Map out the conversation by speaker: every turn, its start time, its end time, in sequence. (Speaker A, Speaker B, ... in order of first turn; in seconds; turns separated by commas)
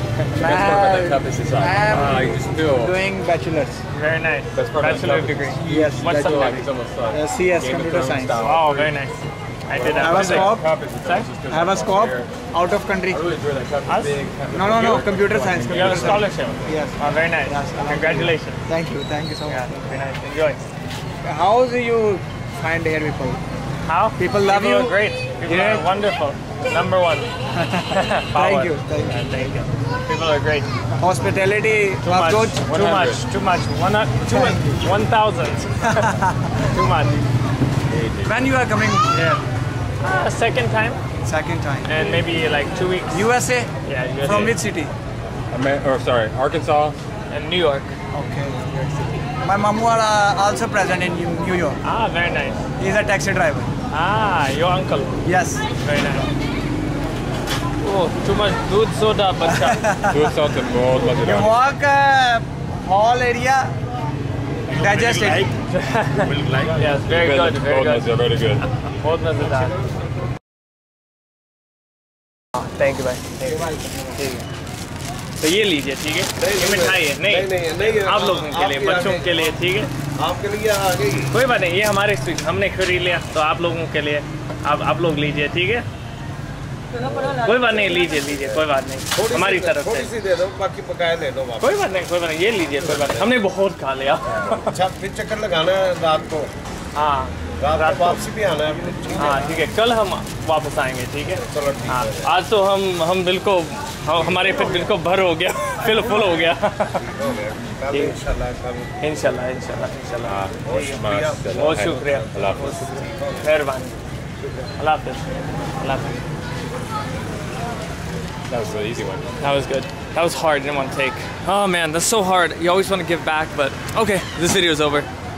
Speaker A: 0.4-3.8, Speaker B: 0.4-3.0, Speaker C: 3.9-6.6, Speaker B: 4.5-8.9, Speaker A: 5.6-8.5, Speaker C: 8.4-11.3, Speaker B: 9.8-12.3, Speaker A: 9.9-10.7, Speaker A: 11.5-13.2, Speaker B: 13.1-16.3, Speaker C: 13.9-14.2, Speaker A: 14.5-19.7, Speaker C: 15.7-18.6, Speaker C: 19.5-20.6, Speaker A: 21.2-23.4, Speaker C: 23.9-27.3, Speaker A: 24.2-25.9, Speaker A: 27.6-29.2, Speaker C: 27.9-30.7, Speaker A: 31.0-32.6, Speaker C: 32.0-37.3, Speaker B: 32.6-33.2, Speaker A: 34.3-34.8, Speaker A: 35.8-36.5, Speaker B: 37.9-38.5, Speaker A: 38.2-39.4, Speaker C: 40.0-41.0, Speaker A: 41.2-41.9, Speaker C: 41.9-43.2, Speaker A: 43.1-43.7, Speaker C: 43.9-44.6, Speaker A: 44.2-44.9, Speaker B: 45.5-47.0, Speaker C: 47.3-47.9, Speaker A: 48.1-51.8, Speaker C: 51.8-52.6, Speaker A: 52.8-53.7, Speaker C: 53.9-55.2, Speaker A: 55.2-55.6, Speaker C: 55.8-56.3, Speaker C: 57.8-59.9, Speaker A: 59.5-60.4, Speaker B: 60.1-61.5, Speaker A: 61.2-63.8, Speaker A: 64.7-65.5, Speaker B: 64.8-65.4, Speaker C: 65.7-68.1, Speaker B: 67.0-68.6, Speaker C: 68.6-69.8, Speaker C: 72.6-74.5, Speaker C: 75.4-79.9, Speaker D: 76.4-79.3, Speaker D: 80.2-81.3, Speaker C: 81.3-85.9, Speaker C: 87.3-90.1, Speaker D: 89.2-91.6, Speaker C: 91.6-94.8, Speaker D: 94.6-96.5, Speaker C: 96.9-98.2, Speaker D: 97.6-99.4, Speaker C: 99.2-107.1, Speaker D: 101.5-102.2, Speaker D: 107.2-108.9, Speaker C: 107.9-108.2, Speaker C: 109.0-110.9, Speaker B: 110.2-112.8, Speaker D: 110.7-112.5, Speaker C: 111.5-113.9, Speaker C: 114.8-116.2, Speaker B: 118.5-119.3, Speaker C: 119.4-125.1